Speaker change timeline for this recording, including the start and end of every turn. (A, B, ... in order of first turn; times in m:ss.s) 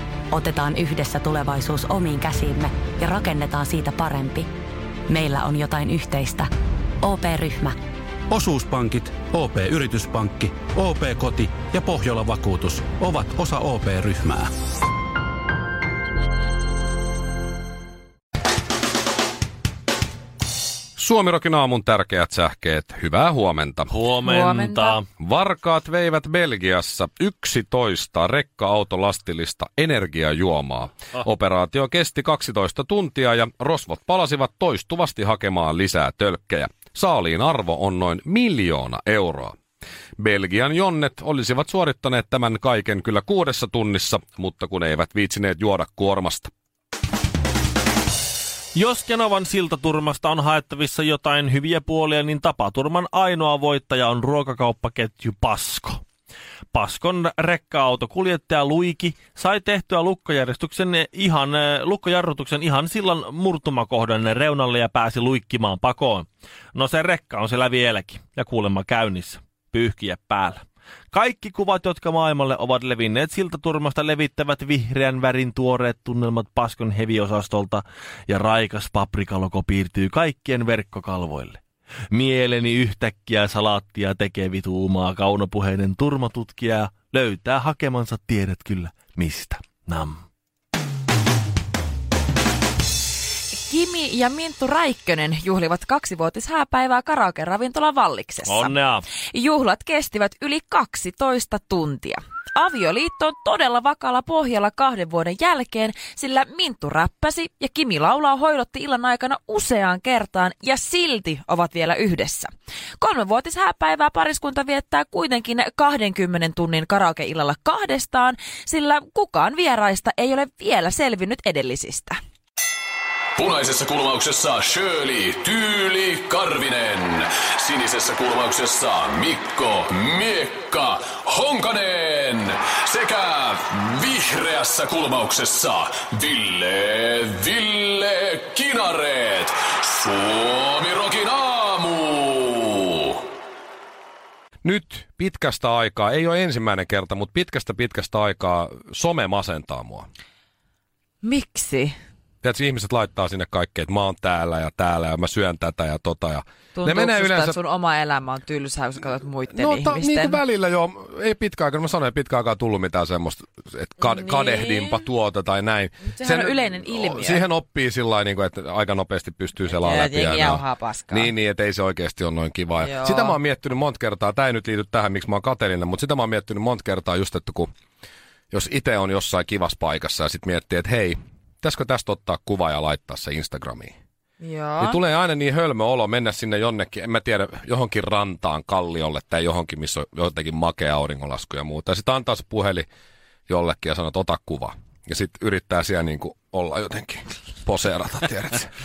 0:00.3-0:04.5 A
0:05.1-0:06.5 A
0:07.0-0:07.8 A
0:08.3-0:14.5 B
0:21.0-0:23.9 C
0:23.9-0:25.0 D
0:24.2-0:25.0 E
0:25.2-0:39.6 C
0:40.2-0:46.5 C
0:48.7-0:56.0 D
0:56.7-1:30.2 D
1:33.5-2:02.2 E
1:38.4-1:39.1 D
2:03.4-2:23.2 F
2:24.6-2:30.1 C
2:31.2-2:31.9 E
2:32.4-2:37.6 C
2:36.8-2:40.4 E
2:39.5-2:57.7 C
2:44.0-2:45.0 E
2:46.1-2:47.4 E
2:49.7-2:51.3 E
2:52.8-2:53.4 E
2:58.5-3:03.9 C
3:04.4-3:05.0 E
3:04.8-3:12.9 C
3:13.5-3:18.7 C